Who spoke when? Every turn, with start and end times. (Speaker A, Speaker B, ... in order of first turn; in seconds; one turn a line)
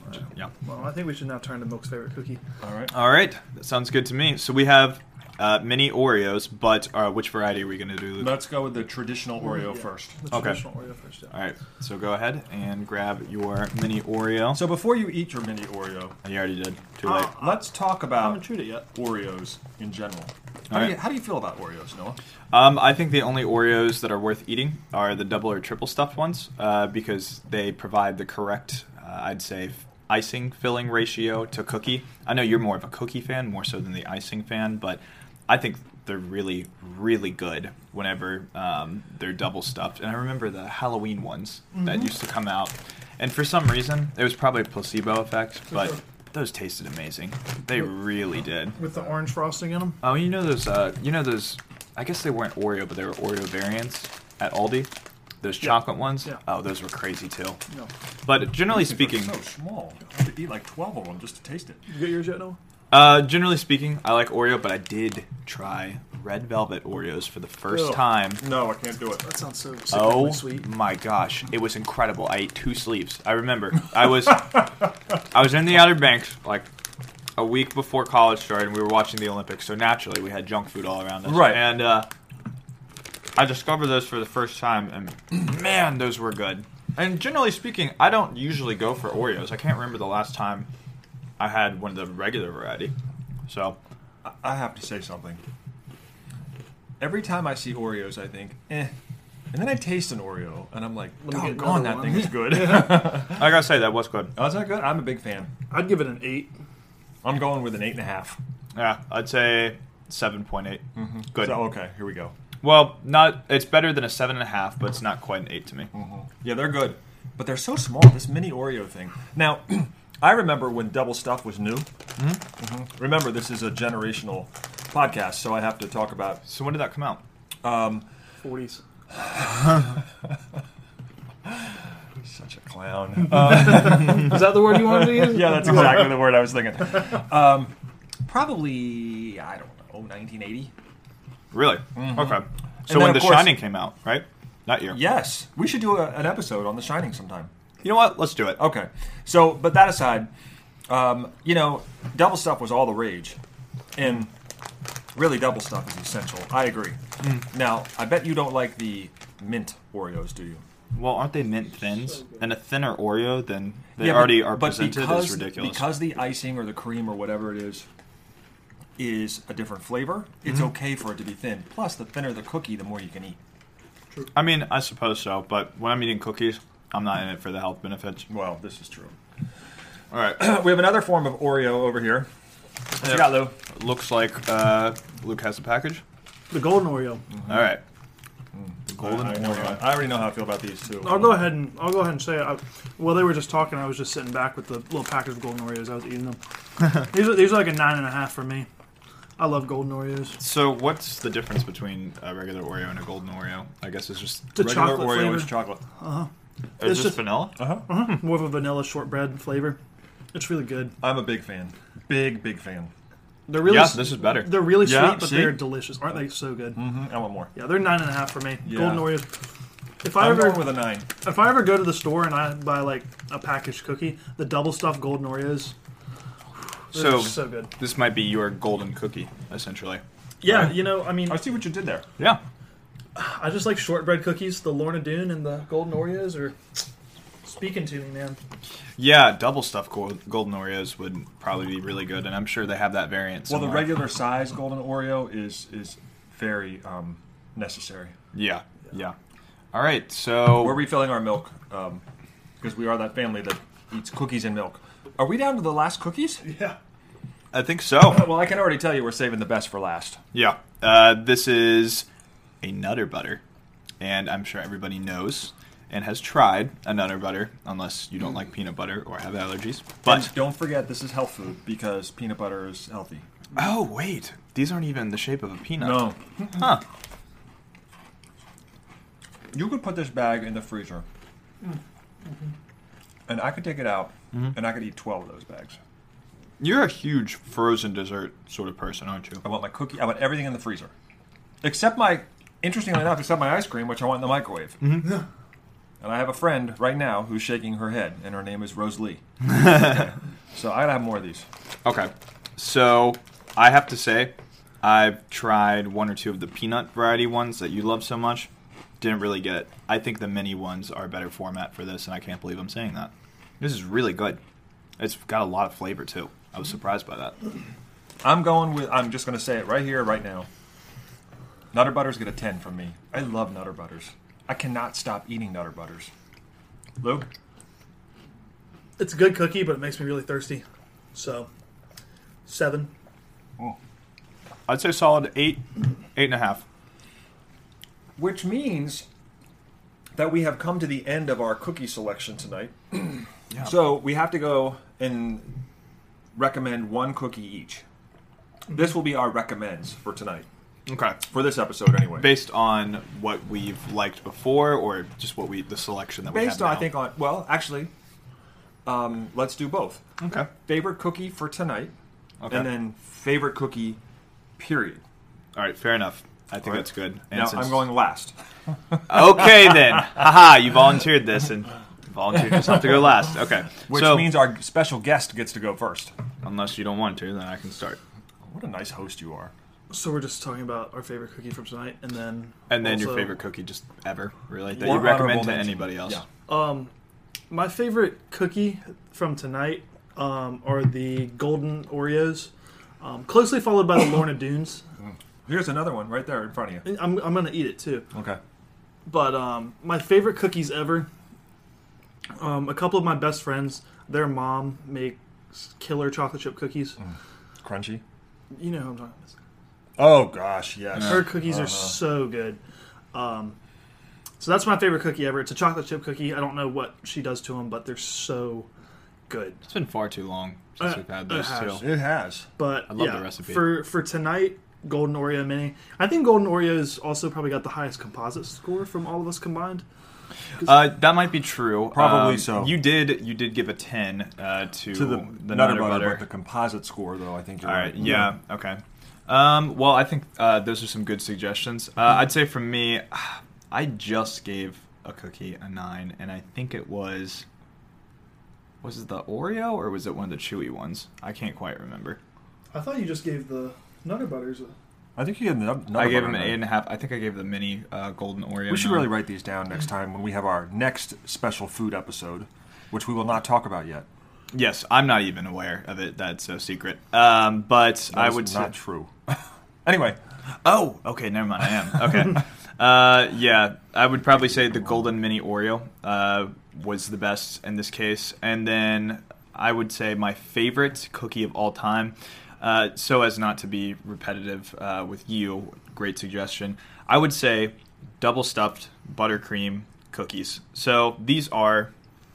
Speaker A: 0.2-0.5
Speaker B: 0.6-2.4
Speaker C: 2.6-2.9
Speaker A: 2.9-8.4
Speaker C: 8.2-10.2
Speaker B: 9.4-11.3
Speaker A: 10.3-10.6
Speaker A: 11.3-14.7
Speaker C: 14.5-16.2
Speaker A: 16.2-17.3
Speaker B: 17.0-18.9
Speaker C: 17.4-22.2
Speaker A: 20.7-21.0
Speaker A: 22.5-48.8
Speaker B: 41.8-42.1
Speaker B: 45.7-46.0
Speaker B: 48.7-50.0
Speaker A: 50.0-54.9
Speaker A: 55.4-57.6
Speaker B: 55.6-56.4
Speaker A: 58.3-59.4
Speaker C: 58.7-61.8
Speaker B: 61.9-62.6
Speaker A: 62.9-68.4
Speaker C: 67.8-69.2
Speaker B: 69.2-70.7
Speaker A: 69.9-76.7
Speaker A: 77.4-82.1
Speaker C: 81.2-81.8
Speaker A: 83.4-90.7
Speaker A: 91.4-92.9
Speaker A: 93.5-93.8
Speaker C: 94.2-95.4
Speaker C: 97.0-98.9
Speaker C: 99.5-103.6
Speaker B: 101.2-103.1
Speaker A: 103.2-104.3
Speaker C: 104.3-105.5
Speaker B: 105.7-106.5
Speaker C: 107.2-108.4
Speaker A: 108.8-111.7
Speaker C: 111.0-112.3
Speaker A: 112.6-115.9
Speaker C: 115.9-121.9
Speaker C: 122.6-126.4
Speaker A: 126.5-127.2
Speaker C: 127.6-128.1
Speaker B: 128.4-128.8
Speaker C: 129.1-130.0
Speaker C: 132.2-137.7
Speaker B: 133.3-136.2
Speaker C: 138.2-140.7
Speaker A: 141.5-145.0
Speaker C: 141.9-143.6
Speaker C: 144.9-147.5
Speaker A: 147.8-148.6
Speaker C: 148.6-150.3
Speaker C: 150.9-153.4
Speaker C: 153.9-154.3
Speaker C: 155.1-160.6
Speaker A: 160.9-166.0
Speaker C: 164.0-167.9
Speaker C: 169.0-173.4
Speaker A: 174.3-178.3
Speaker C: 178.3-179.2
Speaker A: 180.1-180.4
Speaker C: 180.4-182.3
Speaker C: 182.9-183.6
Speaker A: 183.0-186.0
Speaker B: 186.5-187.2
Speaker C: 187.3-187.6
Speaker A: 187.5-187.8
Speaker C: 188.5-191.6
Speaker A: 188.9-189.9
Speaker B: 191.0-196.4
Speaker B: 196.9-198.7
Speaker B: 199.4-200.4
Speaker A: 200.4-204.6
Speaker B: 204.5-209.8
Speaker C: 204.6-205.8
Speaker A: 206.8-208.2
Speaker C: 207.6-207.9
Speaker B: 210.3-211.0
Speaker C: 211.0-212.9
Speaker B: 213.5-216.9
Speaker A: 213.6-214.7
Speaker C: 214.7-215.7
Speaker C: 216.7-217.5
Speaker B: 217.5-219.3
Speaker C: 218.6-219.2
Speaker B: 220.0-225.7
Speaker C: 220.1-221.1
Speaker B: 226.9-227.7
Speaker A: 226.9-230.0
Speaker B: 230.4-231.5
Speaker C: 230.4-232.1
Speaker B: 233.2-236.8
Speaker B: 237.4-238.4
Speaker A: 239.0-243.9
Speaker C: 243.5-248.2
Speaker A: 248.3-249.2
Speaker A: 249.7-250.9
Speaker C: 250.6-252.0
Speaker C: 252.6-256.4
Speaker B: 256.4-256.8
Speaker A: 257.5-258.3
Speaker C: 258.1-260.2
Speaker A: 260.3-262.1
Speaker A: 262.6-263.4
Speaker A: 264.0-270.4
Speaker C: 270.0-273.2
Speaker A: 273.6-276.9
Speaker C: 275.8-276.2
Speaker C: 279.5-281.1
Speaker B: 281.6-282.5
Speaker C: 283.3-285.8
Speaker A: 286.6-289.5
Speaker C: 289.4-290.9
Speaker C: 291.6-294.9
Speaker A: 294.8-295.2
Speaker C: 296.0-301.5
Speaker A: 299.4-300.1
Speaker A: 301.9-308.5
Speaker A: 309.0-314.4
Speaker A: 315.0-317.4
Speaker C: 318.2-320.5
Speaker C: 321.7-326.1
Speaker C: 327.0-327.3
Speaker B: 329.0-331.5
Speaker B: 332.5-332.9
Speaker A: 334.7-336.6
Speaker C: 338.2-339.1
Speaker C: 340.2-345.6
Speaker A: 343.5-343.8
Speaker C: 346.4-347.8
Speaker C: 348.7-350.5
Speaker A: 350.9-351.3
Speaker C: 351.2-352.3
Speaker A: 352.2-356.9
Speaker C: 356.3-357.9
Speaker C: 358.9-360.0
Speaker A: 360.2-360.5
Speaker C: 360.6-361.9
Speaker A: 362.4-362.7
Speaker C: 362.5-364.0
Speaker C: 364.6-365.0
Speaker A: 365.6-367.9
Speaker C: 366.6-368.4
Speaker A: 369.1-374.4
Speaker C: 373.9-376.1
Speaker A: 376.4-378.0
Speaker C: 378.4-379.5
Speaker B: 379.9-383.4
Speaker A: 382.7-386.2
Speaker C: 384.7-386.2
Speaker B: 386.5-386.9
Speaker B: 387.5-394.8
Speaker C: 395.5-396.9
Speaker B: 396.9-398.1
Speaker C: 398.1-398.4
Speaker B: 399.1-401.1
Speaker B: 402.4-407.0
Speaker C: 407.0-408.0
Speaker B: 408.5-409.3
Speaker C: 410.0-412.0
Speaker B: 411.0-412.6
Speaker B: 413.1-413.6
Speaker B: 414.4-418.7
Speaker B: 419.3-419.6
Speaker A: 419.7-421.9
Speaker B: 420.8-422.0
Speaker C: 421.8-422.5
Speaker B: 422.6-429.9
Speaker A: 422.9-423.9
Speaker A: 430.6-436.2
Speaker C: 431.9-432.8
Speaker C: 434.9-438.3
Speaker A: 437.6-447.4
Speaker A: 448.8-452.2
Speaker B: 452.7-454.7
Speaker C: 455.2-456.6
Speaker A: 455.9-459.1
Speaker C: 458.7-464.1
Speaker A: 464.5-468.7
Speaker C: 468.1-470.2
Speaker A: 470.6-491.9